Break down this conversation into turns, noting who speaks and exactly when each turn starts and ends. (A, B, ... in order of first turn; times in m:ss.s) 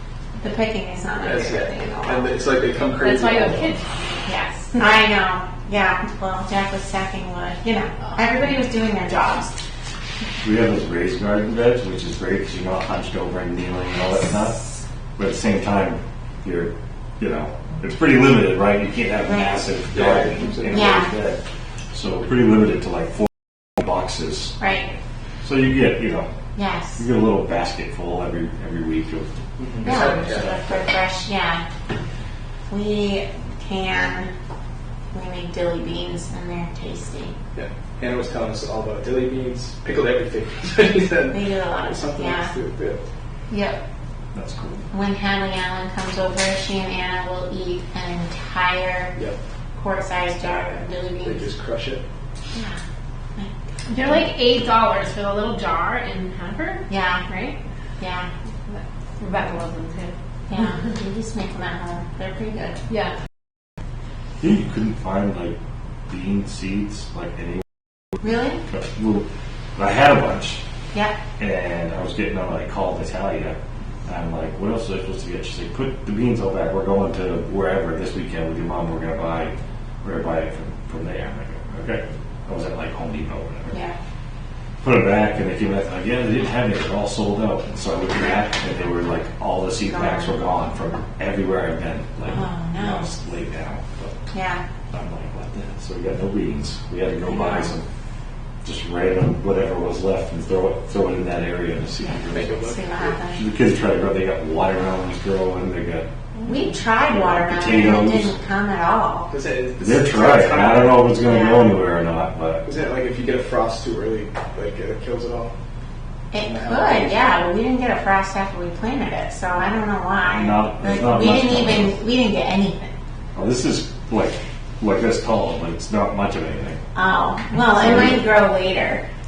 0:00.4-0:02.3 A
0:01.2-0:03.8 B
0:03.0-0:03.8 C
0:04.2-0:09.6 A
0:10.4-0:14.6 D
0:15.2-0:21.4 D
0:19.2-0:19.7 A
0:19.9-0:20.9 B
0:20.7-0:21.1 A
0:21.9-0:23.2 D
0:23.8-0:24.5 D
0:24.6-0:24.9 A
0:25.4-0:26.3 D
0:26.6-0:27.0 A
0:27.0-0:29.3 D
0:29.6-0:30.9 B
0:29.8-0:31.6 A
0:29.8-0:30.2 D
0:32.7-0:34.3 A
0:35.1-0:37.4 A
0:37.5-0:43.0 B
0:41.3-0:42.5 A
0:43.5-0:43.8 A
0:44.3-0:44.9 D
0:44.9-0:49.1 A
0:49.7-0:51.4 A
0:51.2-0:52.0 B
0:52.5-0:52.8 A
0:53.9-0:56.8 C
0:56.9-0:58.3 A
0:58.7-1:00.1 C
1:00.5-1:02.8 A
1:04.4-1:05.5 D
1:06.1-1:07.6 D
1:08.2-1:08.6 A
1:08.7-1:09.2 D
1:09.8-1:10.6 D
1:11.4-1:23.8 D
1:23.7-1:24.0 A
1:24.8-1:34.2 D
1:29.8-1:30.3 A
1:32.2-1:33.1 A
1:34.3-1:34.6 A
1:34.9-1:37.8 D
1:37.2-1:37.7 A
1:38.6-1:42.6 D
1:42.0-1:43.4 A
1:42.3-1:43.2 B
1:43.3-1:46.1 D
1:46.4-1:49.3 A
1:47.1-1:48.3 D
1:49.3-1:51.1 B
1:49.8-1:52.6 D
1:51.2-1:51.8 A
1:52.6-1:55.5 B
1:56.3-2:02.9 A
1:56.4-1:57.3 B
2:00.2-2:02.0 D
2:03.3-2:06.8 D
2:06.9-2:09.0 A
2:07.7-2:08.2 D